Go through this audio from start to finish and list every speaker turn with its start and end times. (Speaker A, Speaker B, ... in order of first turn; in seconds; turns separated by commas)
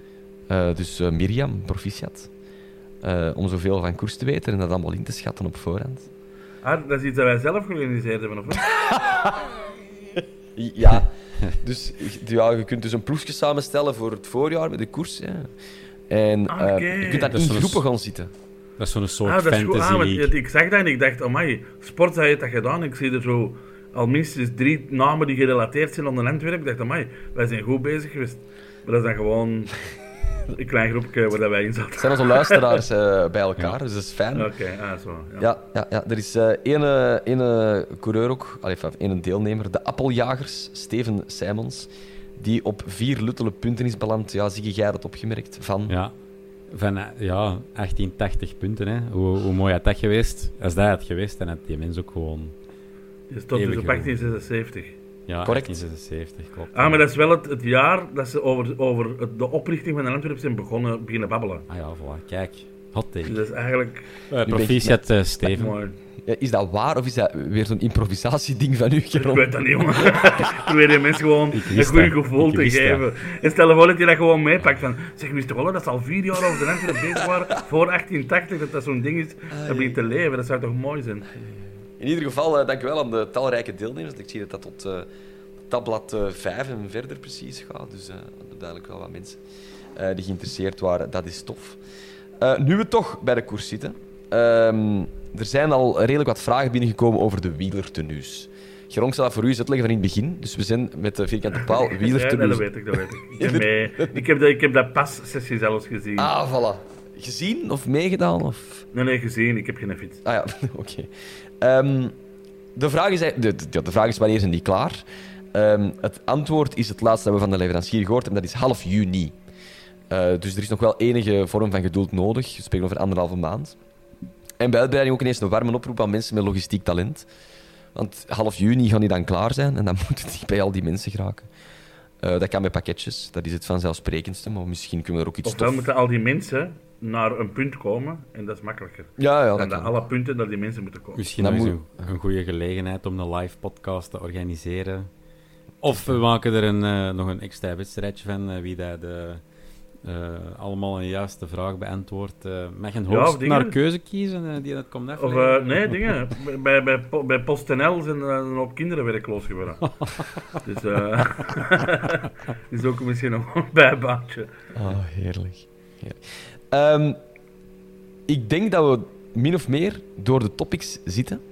Speaker A: 0.5-2.3, Speaker A: 3.0-6.1, Speaker B: 6.6-8.7, Speaker A: 8.6-9.5, Speaker A: 10.2-15.5, Speaker A: 16.1-18.3, Speaker B: 16.5-17.3, Speaker C: 17.3-17.9, Speaker C: 18.8-20.3, Speaker B: 19.2-29.9, Speaker B: 30.5-32.8, Speaker A: 32.0-34.5, Speaker B: 34.3-35.5, Speaker A: 35.4-46.0, Speaker C: 45.9-46.2, Speaker C: 46.7-52.5, Speaker B: 53.3-55.0, Speaker C: 53.5-54.1, Speaker C: 55.3-57.0, Speaker A: 55.4-55.8, Speaker B: 56.7-61.6, Speaker C: 61.7-63.4, Speaker B: 63.2-64.2, Speaker C: 64.3-65.8, Speaker A: 64.4-65.3, Speaker B: 65.5-66.0, Speaker A: 66.2-70.5, Speaker B: 69.1-81.3, Speaker C: 71.5-73.0, Speaker A: 79.5-80.0, Speaker A: 81.3-85.1, Speaker A: 85.7-89.4, Speaker A: 89.9-91.8, Speaker A: 92.4-102.8, Speaker B: 101.9-106.3, Speaker A: 103.3-104.2, Speaker A: 106.2-108.8, Speaker B: 108.9-110.2, Speaker A: 110.2-111.1, Speaker A: 111.6-112.1, Speaker A: 112.8-119.3, Speaker A: 120.1-123.8, Speaker A: 124.6-127.3, Speaker A: 127.9-131.5, Speaker A: 132.2-135.9, Speaker B: 135.4-141.2, Speaker A: 139.2-139.9, Speaker C: 141.2-145.1, Speaker A: 141.4-142.1, Speaker C: 145.8-149.4, Speaker C: 150.0-156.1, Speaker B: 153.1-153.8, Speaker B: 155.2-164.5, Speaker C: 160.0-160.6, Speaker A: 164.7-167.2, Speaker A: 168.3-171.4